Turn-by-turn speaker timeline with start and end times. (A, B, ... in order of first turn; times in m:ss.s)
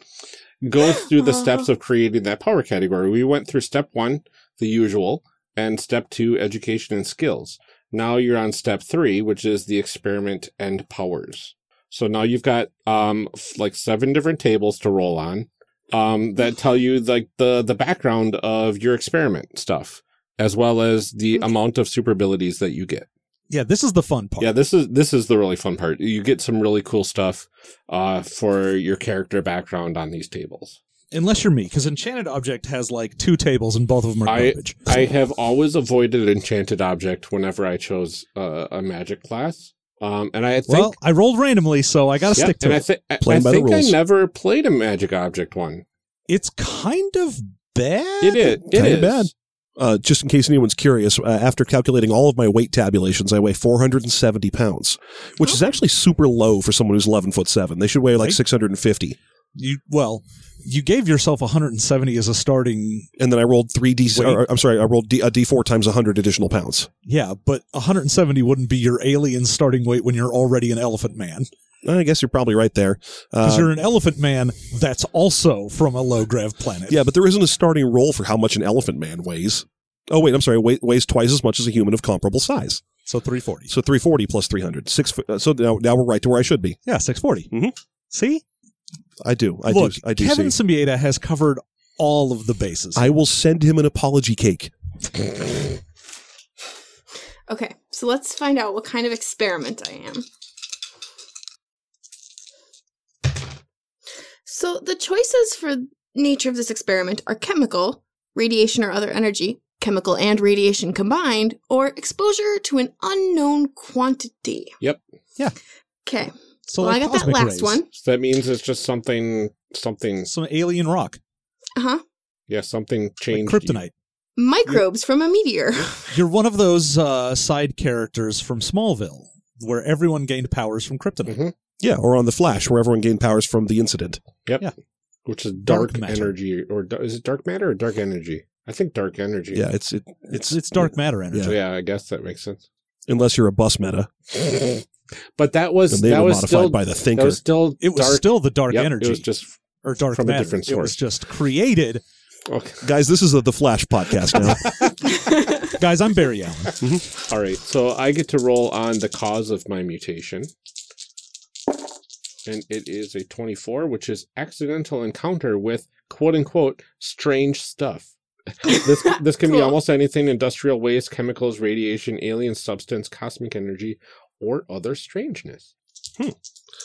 0:00.6-0:23.1 A
0:00.8-0:01.7 B
0:23.5-0:24.5 C
0:24.4-0:30.8 A
0:31.1-0:34.9 C
0:34.3-0:41.0 A
0:40.7-0:42.8 C
0:42.3-0:45.8 A
0:43.2-0:43.9 D
0:46.3-0:48.6 C
0:48.2-0:49.3 A
0:48.7-0:59.2 D
0:55.4-0:55.7 B
0:59.5-1:03.1 C
1:03.2-1:06.9 D
1:04.1-1:04.4 C
1:07.0-1:11.5 C
1:11.8-1:13.7 D
1:13.4-1:17.0 C
1:16.9-1:22.9 D
1:23.0-1:23.7 C
1:23.7-1:26.8 D
1:26.9-1:27.5 C
1:28.1-1:28.4 C
1:29.2-1:30.6 D
1:29.7-1:33.0 C
1:32.9-1:34.7 D
1:37.5-1:40.2 B
1:44.4-1:54.7 B
1:56.0-1:57.9 B
1:56.7-1:57.8 C
1:57.9-2:00.3 A
2:00.3-2:01.2 C
2:01.8-2:02.0 B
2:02.5-2:03.8 A
2:03.3-2:03.9 C
2:04.4-2:06.2 B
2:06.0-2:11.4 C
2:11.2-2:11.5 A
2:11.8-2:14.2 D
2:15.2-2:19.6 A
2:15.7-2:16.3 C
2:19.5-2:21.5 D
2:20.3-2:21.6 C
2:21.4-2:22.6 A
2:23.1-2:24.1 D
2:24.3-2:24.8 A
2:25.4-2:29.5 A
2:25.9-2:27.4 D
2:27.8-2:29.2 C
2:29.8-2:32.0 C
2:30.1-2:31.0 A
2:32.5-2:32.8 A
2:32.8-2:34.7 D
2:34.3-2:34.9 A
2:35.1-2:35.7 B
2:35.6-2:36.8 C
2:36.8-2:37.0 D
2:37.2-2:40.5 A
2:42.4-2:55.7 A
2:48.7-2:49.8 B